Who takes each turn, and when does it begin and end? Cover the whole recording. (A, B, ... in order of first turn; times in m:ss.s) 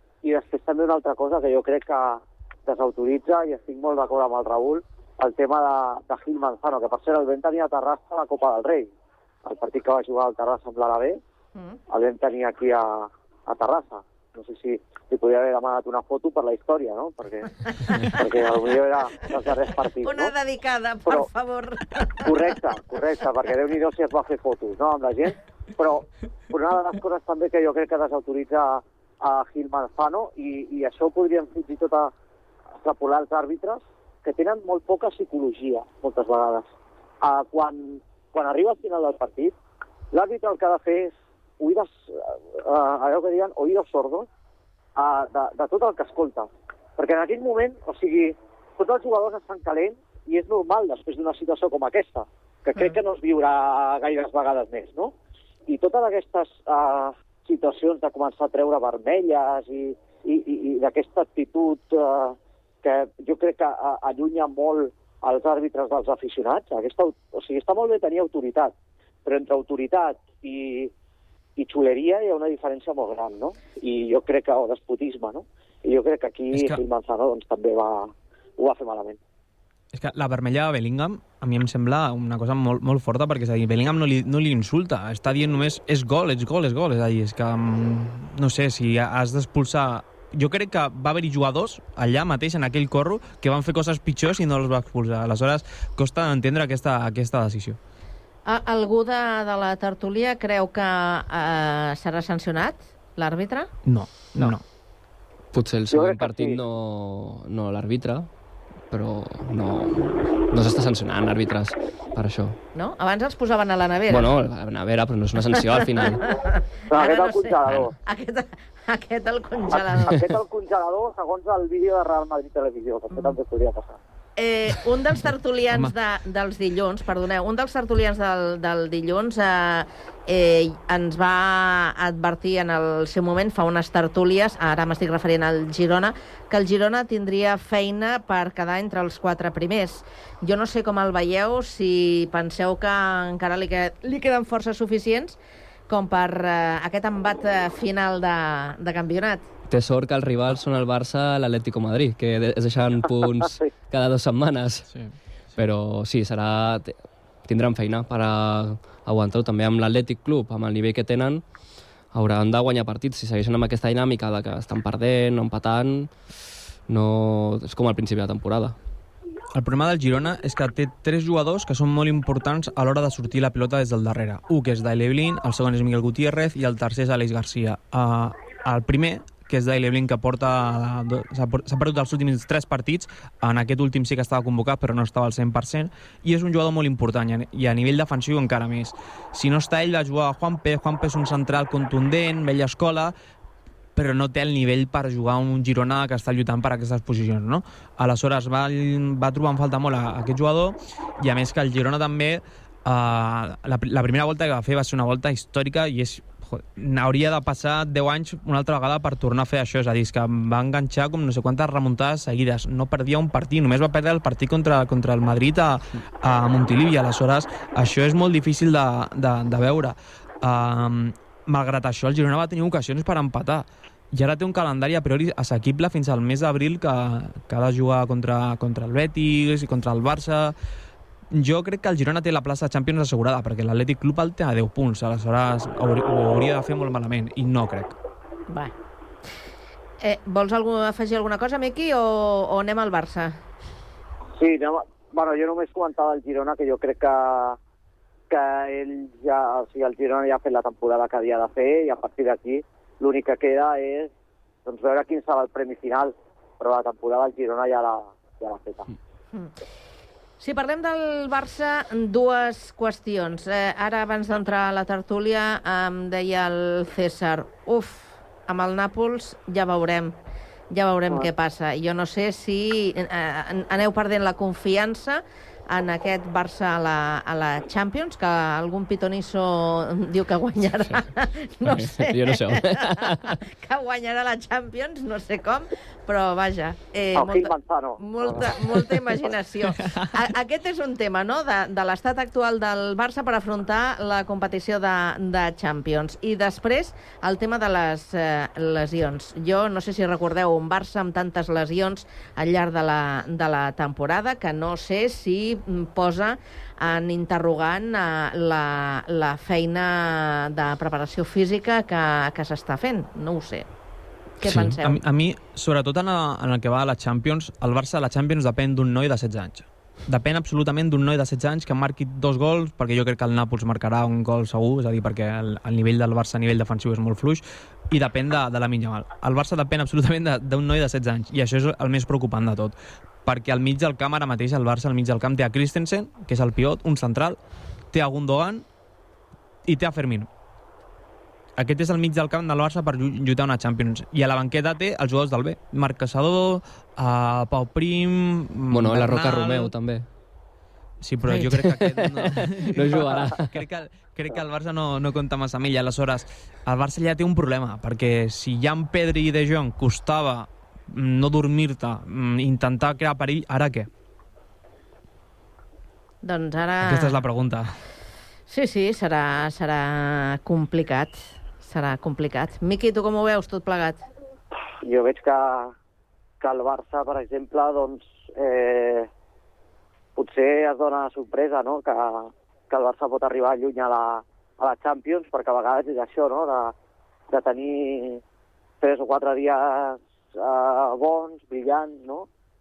0:00.2-0:08.9 A
0:09.4-0:11.2 A
0:11.9-0:17.5 A
0:17.8-0:18.2 B
0:18.1-0:20.3 A
0:20.0-0:22.3 B
0:22.2-0:32.1 A
0:32.8-0:36.7 A
0:37.2-0:39.5 A
0:40.1-0:44.3 A
0:45.0-0:55.1 A
0:55.7-1:08.7 A
1:09.2-1:10.9 A
1:11.6-1:19.2 A
1:16.5-1:16.8 C
1:19.9-1:37.8 C
1:38.4-1:43.7 B
1:43.8-1:44.6 C
1:45.5-1:48.3 D
1:45.9-1:46.6 A
1:48.9-1:52.6 D
1:52.7-1:54.3 B
1:54.1-1:56.2 D
1:55.6-2:00.2 B
1:56.9-1:57.9 A
1:59.7-2:04.0 A
2:04.4-2:25.4 B
2:25.9-2:29.4 B
2:29.7-2:34.9 D
2:33.1-2:33.7 A
2:35.6-2:36.9 D
2:37.4-2:41.4 D
2:42.1-2:46.1 D
2:46.9-2:48.8 D
2:49.5-3:13.1 C
3:14.0-3:50.5 C
3:51.3-3:58.0 C
4:00.0-4:03.4 B
4:04.4-4:07.6 A
4:08.3-4:14.1 A
4:14.6-4:18.9 A
4:20.4-4:30.1 B
4:30.7-5:13.7 B
4:41.6-4:43.4 D
4:47.1-4:48.8 A
4:49.8-4:50.1 C
5:14.4-5:15.0 B
5:14.4-5:32.7 C
5:33.2-5:37.4 C
5:37.9-5:38.6 C
5:39.7-5:40.3 C
5:41.6-5:49.7 C
5:48.7-5:50.0 D
5:51.0-6:03.9 C
5:51.2-5:53.5 D
6:06.2-6:07.2 B
6:06.8-6:07.7 C
6:08.5-6:14.0 B
6:14.8-6:15.7 A
6:16.4-6:19.1 A
6:20.2-6:26.7 A
6:27.3-6:28.2 A
6:28.8-6:32.3 A